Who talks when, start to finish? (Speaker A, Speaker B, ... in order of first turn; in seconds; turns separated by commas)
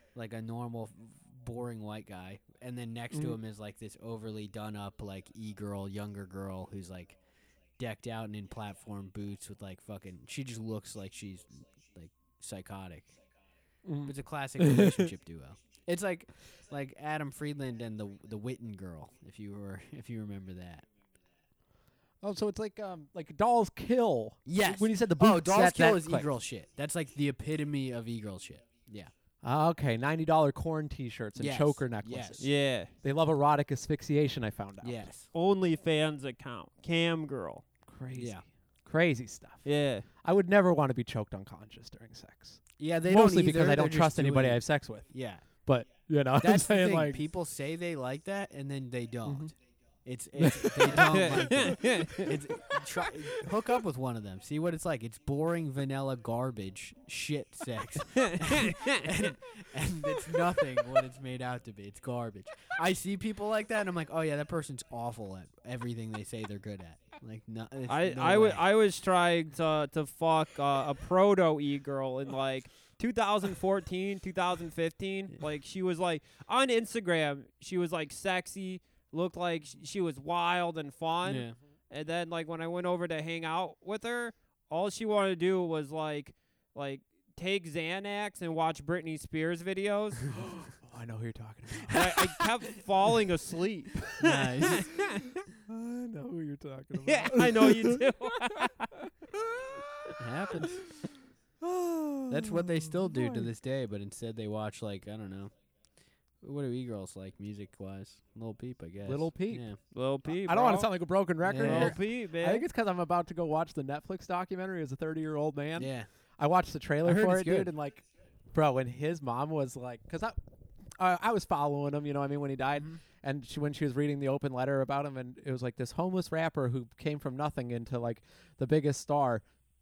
Speaker A: 0.1-7.2, Speaker A: 7.8-13.2, Speaker B: 13.8-15.1, Speaker A: 14.1-20.9, Speaker B: 22.2-26.3, Speaker A: 24.5-29.1, Speaker B: 29.4-32.5, Speaker A: 31.4-32.5, Speaker C: 32.4-32.9, Speaker B: 33.0-35.0, Speaker A: 34.8-35.3, Speaker C: 35.3-37.6, Speaker B: 37.9-39.7, Speaker A: 38.1-38.5, Speaker C: 39.6-40.1, Speaker B: 40.2-45.1, Speaker A: 42.8-45.5, Speaker B: 45.6-47.2, Speaker A: 46.4-49.5, Speaker B: 49.3-49.5, Speaker A: 50.0-68.7, Speaker B: 50.4-52.3, Speaker C: 51.0-52.3, Speaker C: 58.2-59.1, Speaker C: 67.9-90.3, Speaker A: 81.2-81.6, Speaker B: 90.3-92.3, Speaker C: 91.9-95.2, Speaker A: 94.2-94.9, Speaker B: 95.5-98.7, Speaker C: 97.0-98.9, Speaker B: 99.3-101.0, Speaker A: 100.2-100.8, Speaker B: 101.6-103.5, Speaker A: 102.3-105.5, Speaker A: 106.4-109.8, Speaker B: 109.1-109.7, Speaker C: 109.9-110.9, Speaker B: 110.3-120.4, Speaker A: 111.5-112.0, Speaker C: 111.6-112.7, Speaker A: 115.8-116.1, Speaker A: 117.0-117.7, Speaker B: 121.0-129.4